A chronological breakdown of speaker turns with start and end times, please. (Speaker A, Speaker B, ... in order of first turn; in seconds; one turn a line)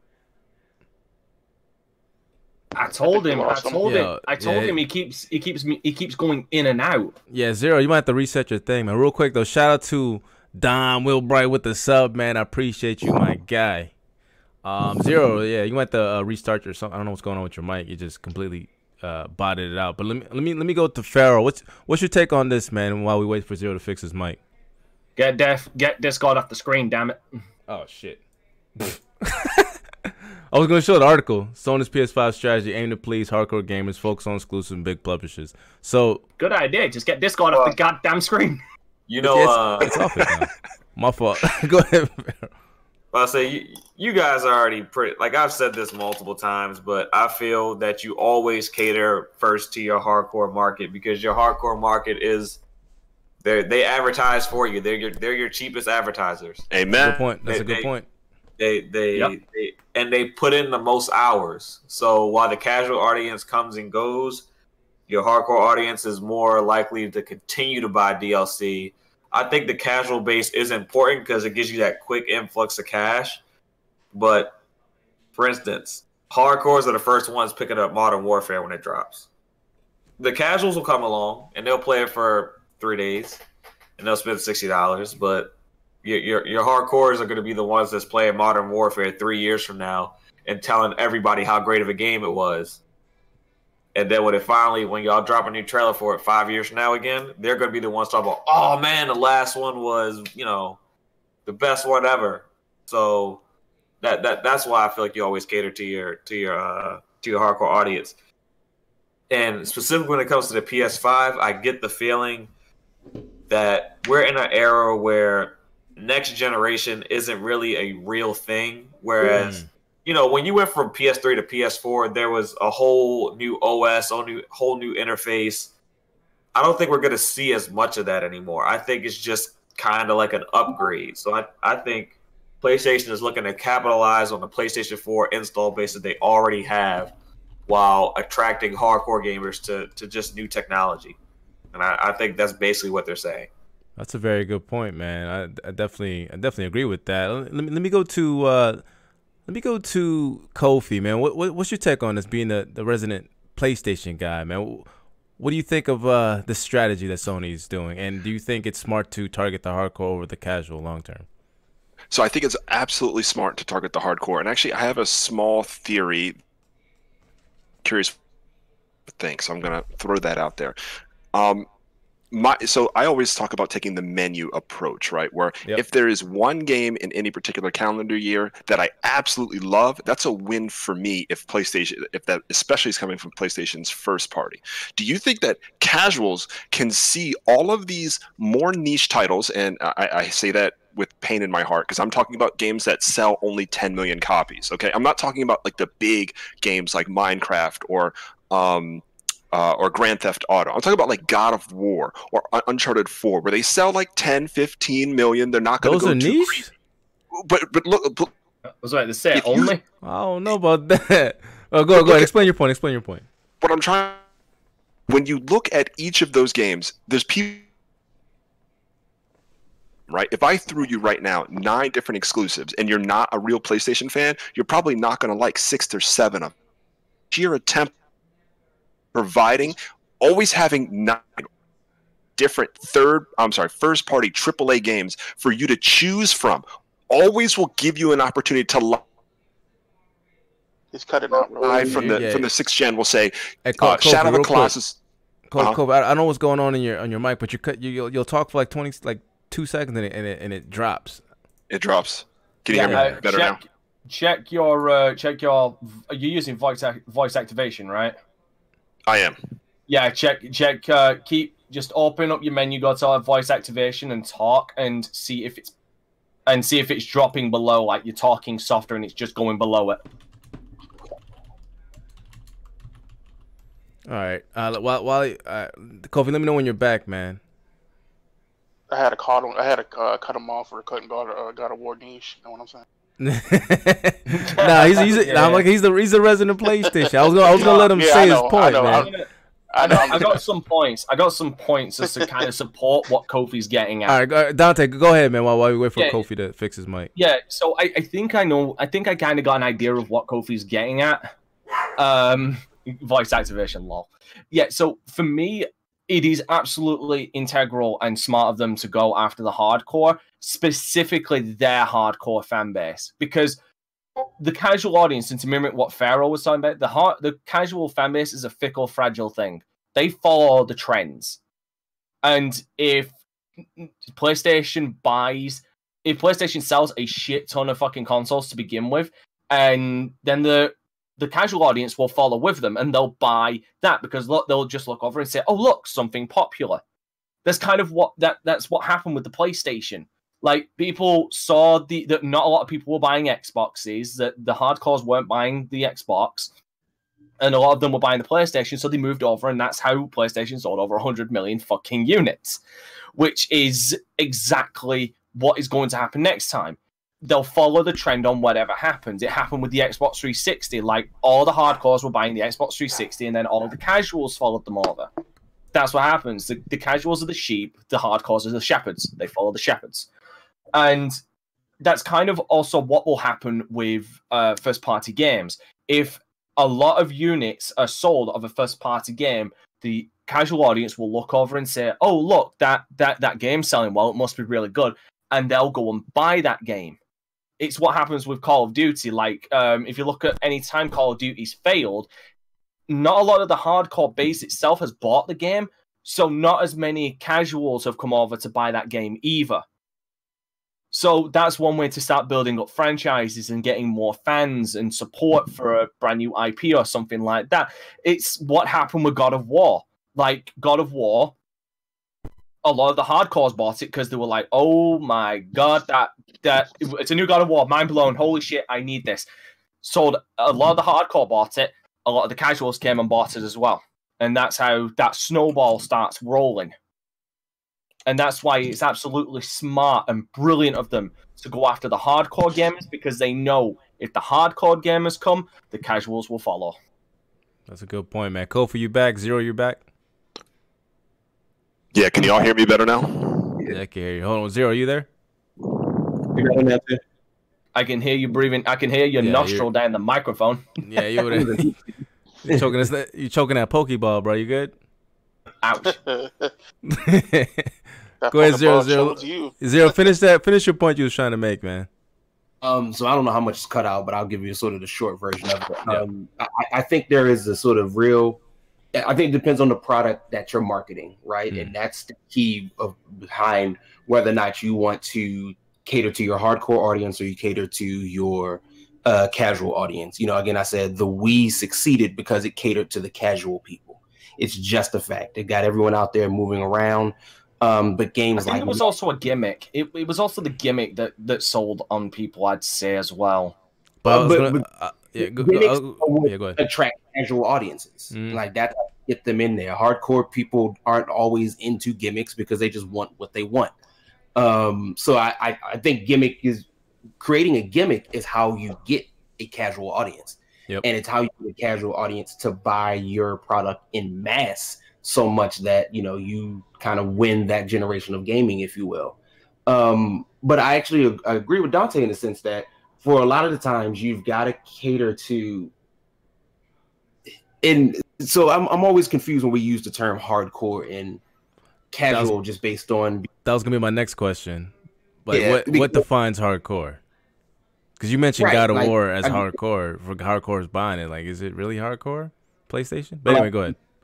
Speaker A: 2.7-7.2
Speaker B: 3.1-4.0
Speaker C: 3.8-4.8
Speaker C: 7.3-13.9
Speaker C: 14.6-24.4
Speaker A: 25.1-27.4
Speaker C: 27.7-28.2
Speaker C: 28.8-29.7
Speaker C: 30.5-36.2
Speaker A: 36.4-38.6
Speaker D: 39.1-39.9
Speaker C: 39.2-42.5
Speaker D: 43.1-52.6
Speaker D: 53.4-56.7
Speaker E: 56.7-57.3
Speaker C: 57.0-58.0
Speaker D: 57.4-57.9
Speaker D: 58.6-64.5
Speaker D: 65.1-73.4
Speaker D: 74.1-74.6
Speaker D: 75.3-79.3
Speaker D: 80.2-83.4
Speaker D: 84.0-85.5
Speaker D: 86.0-92.8
Speaker D: 93.9-100.8
Speaker D: 101.5-103.4
Speaker D: 104.0-108.1
Speaker D: 109.3-112.5
Speaker D: 113.5-125.7
Speaker C: 119.3-119.7
Speaker D: 126.5-137.1
Speaker D: 137.7-141.2
Speaker D: 141.7-143.5
Speaker C: 144.0-148.8
Speaker C: 149.5-154.8
Speaker C: 155.4-161.2
Speaker E: 162.1-166.3
Speaker E: 167.8-168.1
Speaker E: 169.1-170.8
Speaker E: 171.3-171.7
Speaker E: 172.3-206.7
Speaker C: 205.8-206.7
Speaker E: 207.3-208.3
Speaker A: 208.8-209.8
Speaker E: 209.3-209.7
Speaker C: 210.0-213.2
Speaker E: 212.0-212.3
Speaker E: 213.6-214.2
Speaker E: 215.1-217.7
Speaker E: 220.1-226.5
Speaker E: 227.3-227.9
Speaker E: 229.1-231.5
Speaker E: 232.4-239.0
Speaker B: 240.9-242.2
Speaker E: 241.4-245.0
Speaker C: 241.8-242.5
Speaker C: 243.7-244.7
Speaker C: 245.5-251.2
Speaker E: 251.7-253.6
Speaker C: 252.7-253.2
Speaker A: 252.7-258.1
Speaker E: 259.1-259.4
Speaker A: 259.9-265.7
Speaker A: 266.5-270.0
Speaker C: 274.1-277.4
Speaker B: 278.9-282.9
Speaker C: 283.2-289.1
Speaker A: 284.3-285.7
Speaker B: 286.9-289.1
Speaker A: 287.5-294.1
Speaker B: 289.7-290.4
Speaker C: 294.1-297.1
Speaker A: 296.0-296.2
Speaker A: 297.1-301.3
Speaker A: 302.0-313.6
Speaker A: 314.4-321.4
Speaker A: 322.2-323.1
Speaker A: 323.8-336.8
Speaker A: 337.4-346.5
Speaker A: 347.4-352.6
Speaker A: 353.1-365.1
Speaker A: 365.7-370.1
Speaker A: 370.7-371.2
Speaker A: 371.8-387.0
Speaker A: 387.6-392.1
Speaker A: 392.9-399.6
Speaker A: 400.9-411.3
Speaker A: 412.6-419.3
Speaker A: 419.8-426.7
Speaker A: 428.1-436.8
Speaker C: 437.7-439.8
Speaker E: 441.9-443.6
Speaker C: 443.7-445.1
Speaker F: 446.2-447.0
Speaker A: 447.7-450.6
Speaker C: 449.2-449.6
Speaker C: 450.8-451.7
Speaker F: 451.3-451.8
Speaker C: 452.4-454.7
Speaker A: 455.6-456.0
Speaker B: 455.9-456.5
Speaker C: 456.9-457.7
Speaker B: 458.2-459.9
Speaker C: 458.3-461.9
Speaker F: 462.6-468.4
Speaker F: 468.9-488.8
Speaker A: 488.4-493.6
Speaker C: 494.0-496.6
Speaker F: 494.0-494.6
Speaker F: 495.2-503.7
Speaker C: 498.1-498.4
Speaker F: 504.3-506.7
Speaker F: 507.2-525.7
Speaker F: 527.6-531.2
Speaker F: 531.9-533.3
Speaker C: 533.4-534.7
Speaker C: 535.2-537.0
Speaker F: 535.3-536.0
Speaker C: 538.0-543.7
Speaker F: 538.4-539.5
Speaker F: 543.3-543.7